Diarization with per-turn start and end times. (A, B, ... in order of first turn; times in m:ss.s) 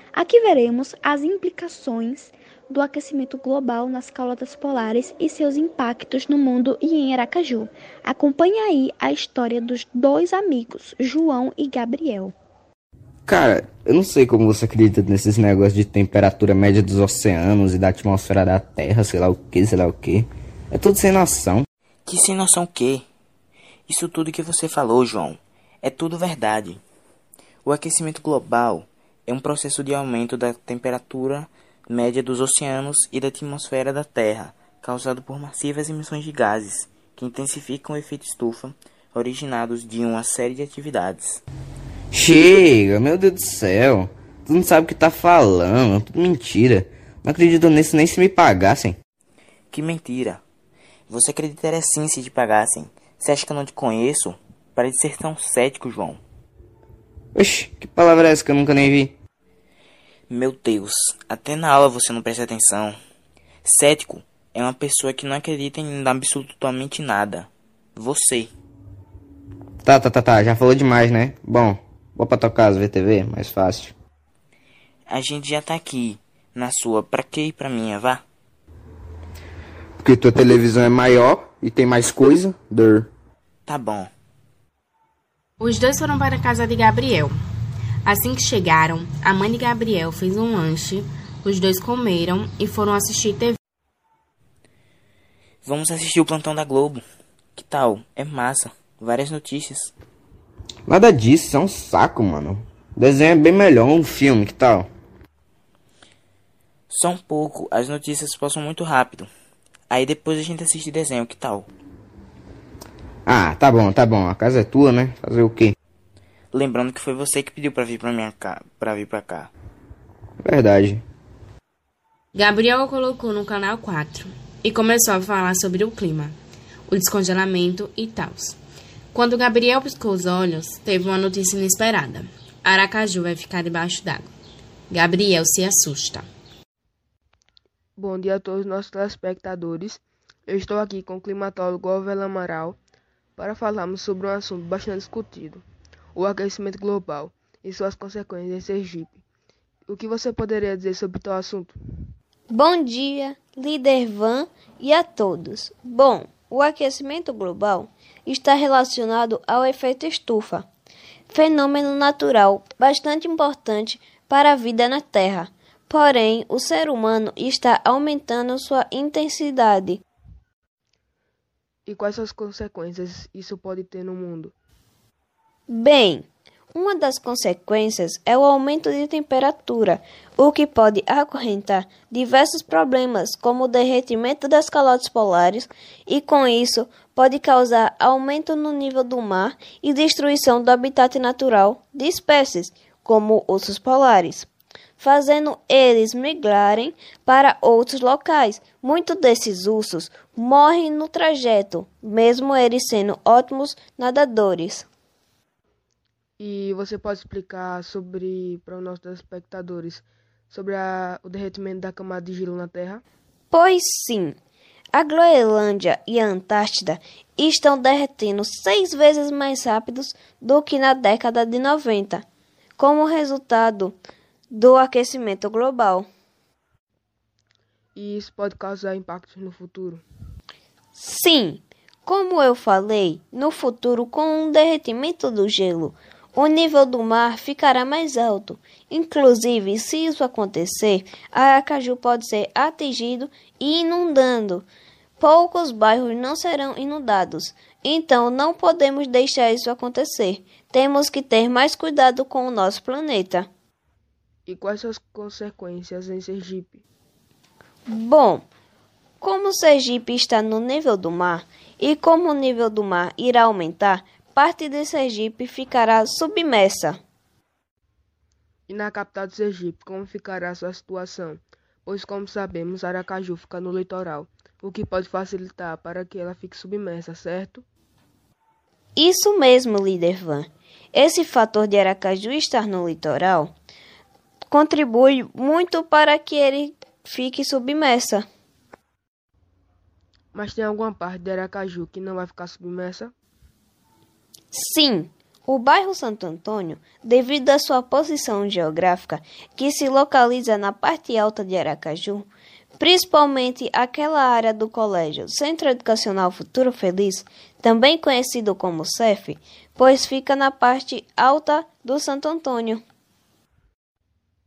0:00.1-0:12.3 A
0:13.3-0:21.7 B
0:22.1-0:23.1 C
0:23.9-0:26.8 C
0:27.6-0:41.4 C
0:42.1-0:49.0 B
0:49.7-0:50.4 C
0:51.1-0:56.2 C
0:57.4-0:59.2 B
1:00.3-1:03.0 C
1:03.6-1:08.5 C
1:09.8-1:14.0 B
1:15.1-1:18.2 C
1:20.0-1:23.1 B
1:23.7-1:24.1 C
1:25.6-1:27.4 D
1:28.0-1:33.6 D
1:35.6-1:37.0 C
1:37.6-1:39.9 C
1:40.9-1:44.9 B
1:46.9-1:49.3 C
1:49.9-1:51.7 C
1:53.3-1:55.7 B
1:56.5-1:59.5 C
2:00.4-2:01.0 B
2:02.4-2:06.4 D
2:06.9-2:08.6 D
2:09.1-2:14.3 D
2:14.9-2:16.3 D
2:18.0-2:22.8 E
2:23.4-2:25.6 E
2:26.2-2:29.2 E
2:29.9-2:31.8 E
2:32.5-2:40.7 F
2:41.3-2:50.0 F
2:51.9-2:54.5 E
2:55.7-3:14.5 F
3:15.0-3:24.9 F
3:26.4-3:33.0 E
3:33.5-3:34.4 F
3:34.9-3:42.2 F
3:42.8-3:44.0 F
3:44.5-3:46.1 F
3:48.0-3:50.0 E
3:51.0-4:04.7 F
4:05.2-4:13.5 F
4:14.5-4:16.8 E
4:17.9-4:18.4 F
4:19.2-4:27.0 F
4:28.7-4:37.6 E
4:39.0-4:43.5 F
4:44.5-4:48.3 F
4:50.3-4:53.1 E
4:54.5-5:12.8 F